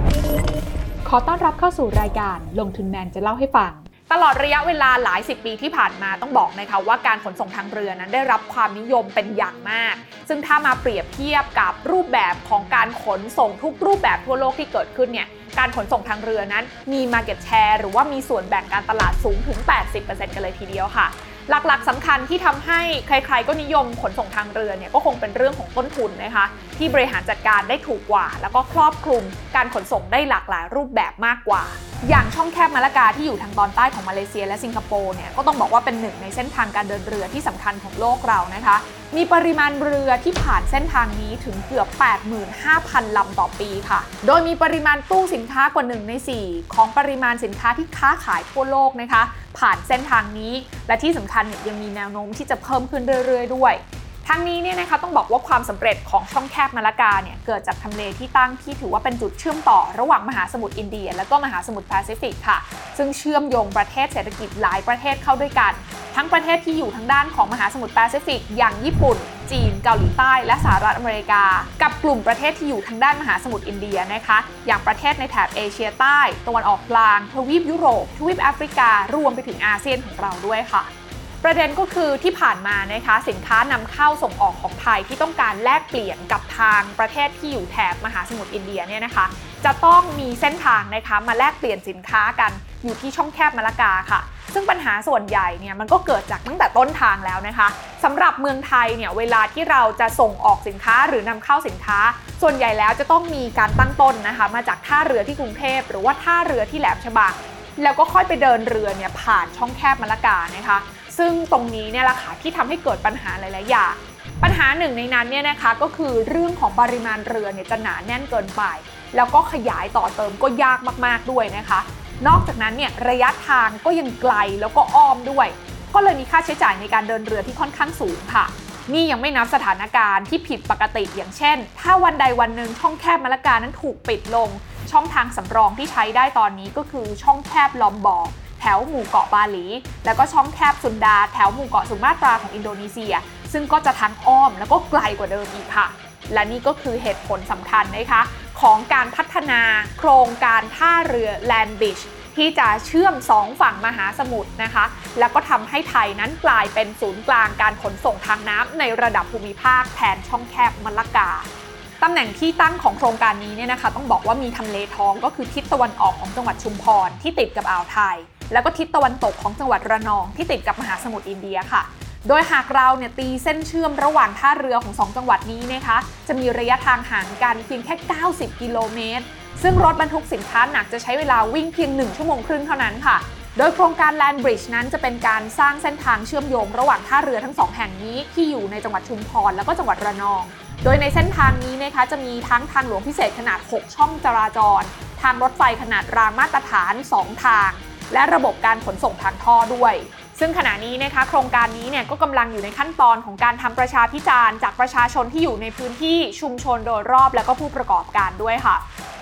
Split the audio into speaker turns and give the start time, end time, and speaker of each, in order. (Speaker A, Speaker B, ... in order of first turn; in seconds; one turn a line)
Speaker A: 1.0-80.9
Speaker A: 81.4-161.5
Speaker A: 162.0-208.8